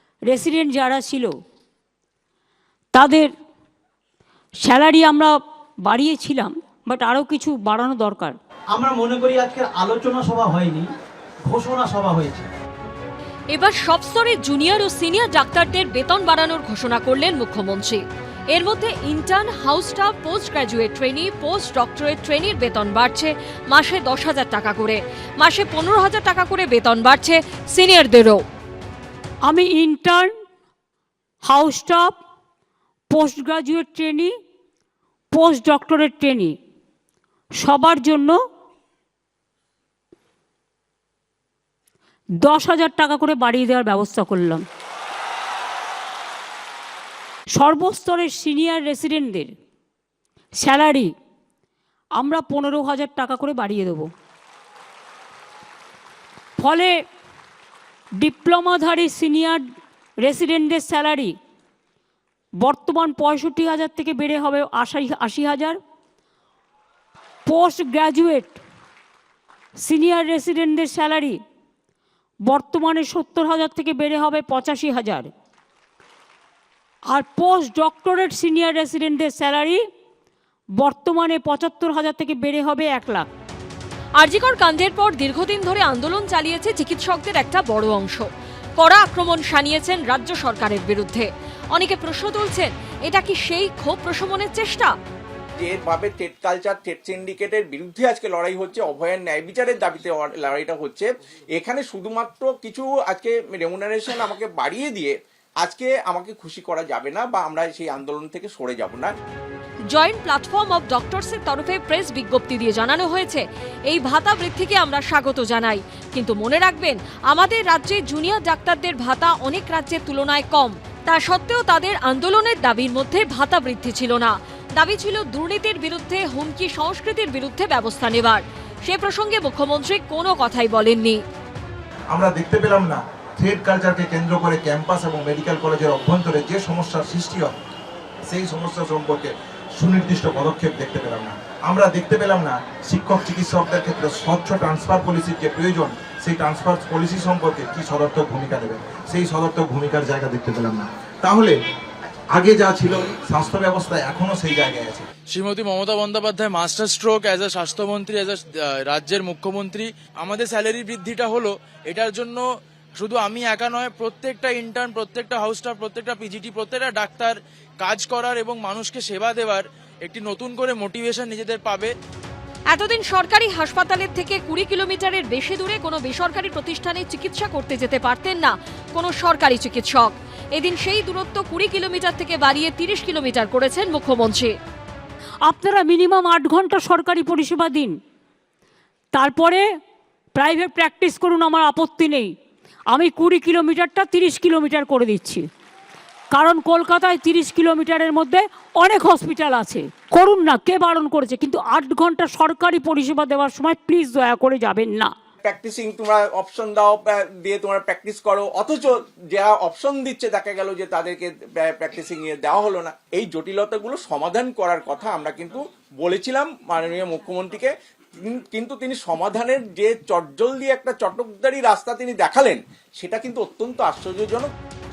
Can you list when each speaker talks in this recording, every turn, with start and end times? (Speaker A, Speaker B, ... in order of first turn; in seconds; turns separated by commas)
Speaker A: 0.3-1.3, Speaker A: 3.0-3.3, Speaker A: 4.6-8.4, Speaker B: 8.7-10.9, Speaker B: 11.5-12.5, Speaker C: 13.5-18.0, Speaker C: 18.5-28.4, Speaker A: 29.5-30.3, Speaker A: 31.4-32.1, Speaker A: 33.1-34.3, Speaker A: 35.3-36.5, Speaker A: 37.6-38.4, Speaker A: 42.4-44.6, Speaker A: 47.5-49.5, Speaker A: 50.6-51.1, Speaker A: 52.2-54.1, Speaker A: 56.6-57.0, Speaker A: 58.2-59.6, Speaker A: 60.2-61.4, Speaker A: 62.6-65.8, Speaker A: 67.5-68.6, Speaker A: 69.8-71.4, Speaker A: 72.5-75.3, Speaker A: 77.1-79.8, Speaker A: 80.8-83.3, Speaker C: 84.2-88.3, Speaker C: 88.8-94.9, Speaker D: 95.6-109.1, Speaker C: 109.9-131.2, Speaker E: 132.1-137.6, Speaker E: 138.3-151.5, Speaker E: 152.3-155.0, Speaker F: 155.3-162.4, Speaker F: 163.0-171.9, Speaker C: 172.7-184.5, Speaker A: 185.4-187.9, Speaker A: 189.1-189.6, Speaker A: 190.3-192.3, Speaker A: 192.9-195.5, Speaker A: 196.3-205.1, Speaker D: 205.4-224.5